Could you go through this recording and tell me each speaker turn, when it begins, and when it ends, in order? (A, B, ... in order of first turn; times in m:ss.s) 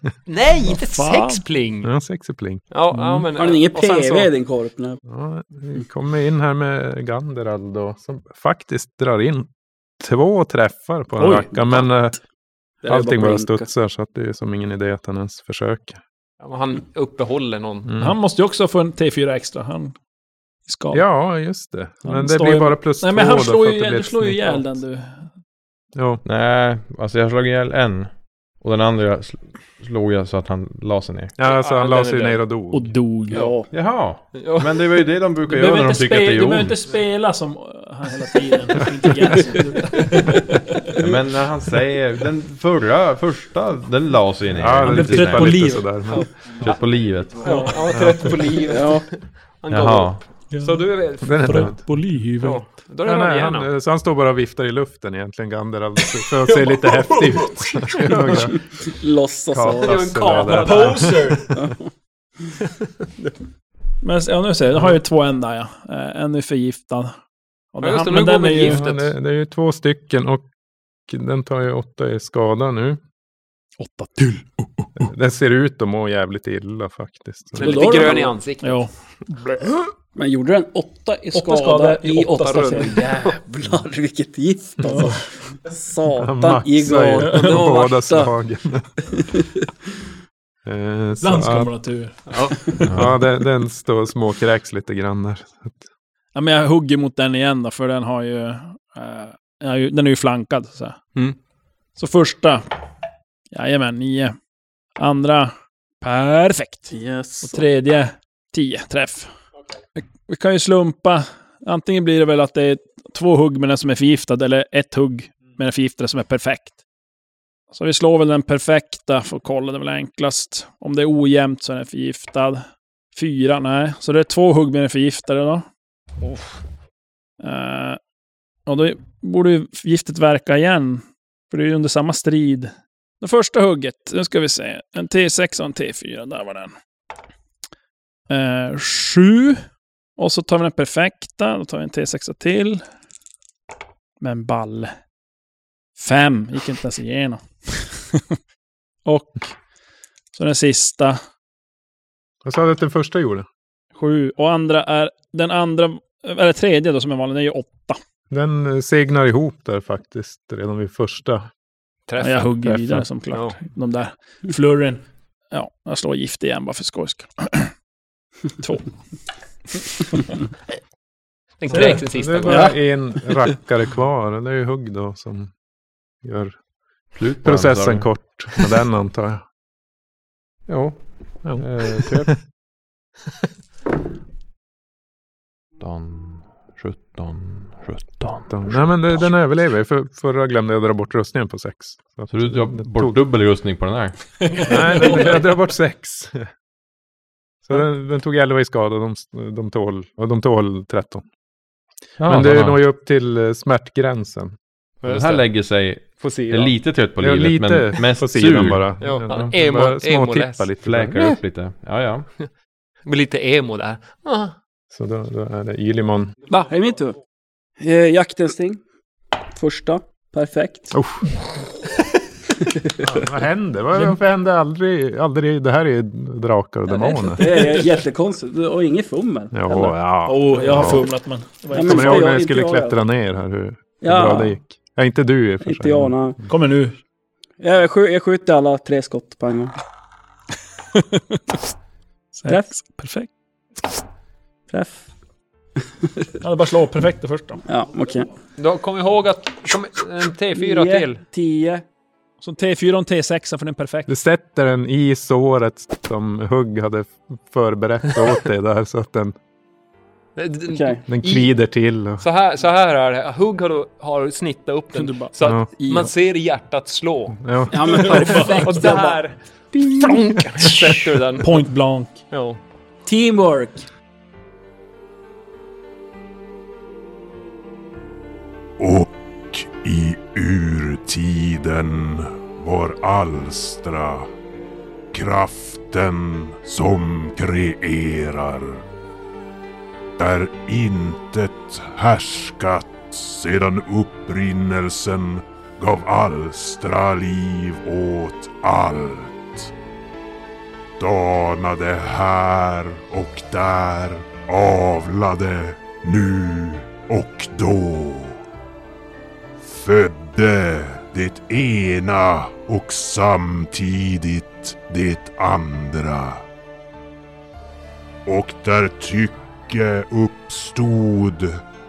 0:00.3-0:01.9 A
0:00.6-0:01.4 B
0:01.8-0:03.0 C
0:02.7-0:04.3 A
0:03.3-0:05.0 D
0:05.0-0:12.2 C
0:11.2-0:11.9 B
0:12.8-0:13.7 D
0:12.8-0:16.0 C
0:16.4-0:17.9 A
0:17.9-0:18.2 C
0:18.0-0:19.9 B
0:20.7-0:21.0 B
0:20.9-0:24.8 C
0:22.0-0:25.3 B
0:25.9-0:26.2 C
0:26.2-0:31.3 E
0:31.4-0:33.0 C
0:31.4-0:32.4 A
0:32.7-0:33.6 B
0:33.3-0:33.7 D
0:33.7-0:36.8 E
0:34.3-0:34.8 A
0:35.5-0:40.9 B
0:39.3-0:40.3 A
0:40.9-0:45.7 E
0:44.5-0:46.3 C
0:44.8-0:46.2 B
0:46.5-0:47.6 E
0:47.4-0:51.7 A
0:47.4-0:47.8 B
0:47.9-0:48.4 C
0:48.6-0:49.0 D
0:49.7-0:50.2 E
0:50.5-0:50.8 B
0:51.2-0:51.9 C
0:51.4-0:52.6 B
0:52.4-0:53.7 A
0:53.0-0:58.6 C
0:56.4-0:58.4 A
0:58.3-1:00.2 D
0:59.5-1:01.4 C
0:59.6-1:01.4 A
1:00.5-1:01.5 B
1:01.5-1:01.8 D
1:02.6-1:03.3 A
1:04.0-1:07.1 B
1:07.7-1:08.8 B
1:07.8-1:09.1 A
1:08.6-1:10.5 C
1:11.1-1:13.0 C
1:13.8-1:14.5 B
1:15.0-1:17.8 C
1:17.5-1:18.9 A
1:17.6-1:18.3 D
1:17.6-1:18.9 B
1:20.1-1:28.3 D
1:21.3-1:22.9 B
1:22.1-1:23.4 A
1:24.9-1:25.2 B
1:26.1-1:28.9 C
1:27.2-1:27.6 B
1:29.1-1:29.5 D
1:30.6-1:31.7 C
1:31.2-1:33.0 B
1:32.3-1:32.6 A
1:32.9-1:35.8 C
1:32.9-1:33.2 E
1:36.3-1:41.0 B
1:42.0-1:42.6 B
1:43.5-1:44.3 B
1:45.0-1:46.9 B
1:46.9-1:47.6 D
1:47.4-1:49.3 B
1:50.0-1:56.8 B
1:57.7-2:05.6 B
2:07.4-2:08.0 B
2:08.6-2:16.7 B
2:18.3-2:19.6 B
2:20.2-2:22.8 B
2:24.2-2:24.9 B
2:26.0-2:28.4 B
2:29.0-2:29.5 B
2:30.3-2:31.2 B
2:32.4-2:33.4 C
2:34.0-2:38.0 B
2:38.3-2:41.5 C
2:42.1-2:42.5 A
2:42.2-2:47.7 B
2:42.6-2:43.0 C
2:43.3-2:43.6 A
2:48.6-2:48.9 B
2:49.8-2:50.2 B
2:51.6-2:52.8 A
2:51.7-2:52.7 B
2:51.7-2:55.5 C
2:56.2-2:56.6 C
2:57.2-2:58.1 E
2:57.4-2:59.4 C
3:00.7-3:02.3 E
3:01.4-3:02.3 C
3:05.8-3:08.8 E
3:08.5-3:13.2 C
3:12.3-3:14.8 E
3:14.4-3:15.3 B
3:14.6-3:16.5 C
3:17.6-3:21.2 C
3:22.2-3:22.8 E
3:22.2-3:24.5 C
3:25.0-3:25.4 A
3:25.0-3:28.8 E
3:26.2-3:26.7 A
3:27.2-3:31.2 C
3:29.0-3:31.4 A
3:30.8-3:32.2 E
3:33.0-3:34.5 A
3:34.9-3:36.3 C
3:36.5-3:37.2 D
3:37.8-3:38.8 D
3:39.5-3:41.0 D
3:40.9-3:41.3 C
3:43.0-3:47.6 C
3:47.2-3:50.0 D
3:47.5-3:47.8 B
3:49.5-3:51.1 C
3:50.2-3:52.4 B
3:51.7-3:53.0 D
3:51.8-3:56.1 C
3:54.0-3:54.6 D
3:55.6-3:56.4 D
3:56.5-3:57.0 B
3:57.6-3:59.7 D
4:00.9-4:01.4 B
4:02.3-4:03.3 B
4:04.7-4:05.1 D
4:06.4-4:07.6 B
4:07.6-4:08.3 D
4:08.6-4:11.2 A
4:10.5-4:11.8 D
4:12.4-4:14.1 B
4:14.1-4:19.3 C
4:20.4-4:21.5 A
4:20.7-4:21.0 D
4:21.1-4:22.2 C
4:22.2-4:31.6 A
4:24.9-4:26.1 B
4:25.4-4:25.7 C
4:27.4-4:28.4 C
4:27.7-4:29.2 D
4:27.9-4:28.8 B
4:31.4-4:32.2 B
4:32.3-4:32.6 A
4:33.0-4:33.8 D
4:38.8-4:44.3 F
4:45.1-4:48.8 F
4:50.2-4:59.7 F
5:01.0-5:08.4 F
5:09.6-5:16.4 F
5:18.2-5:21.6 F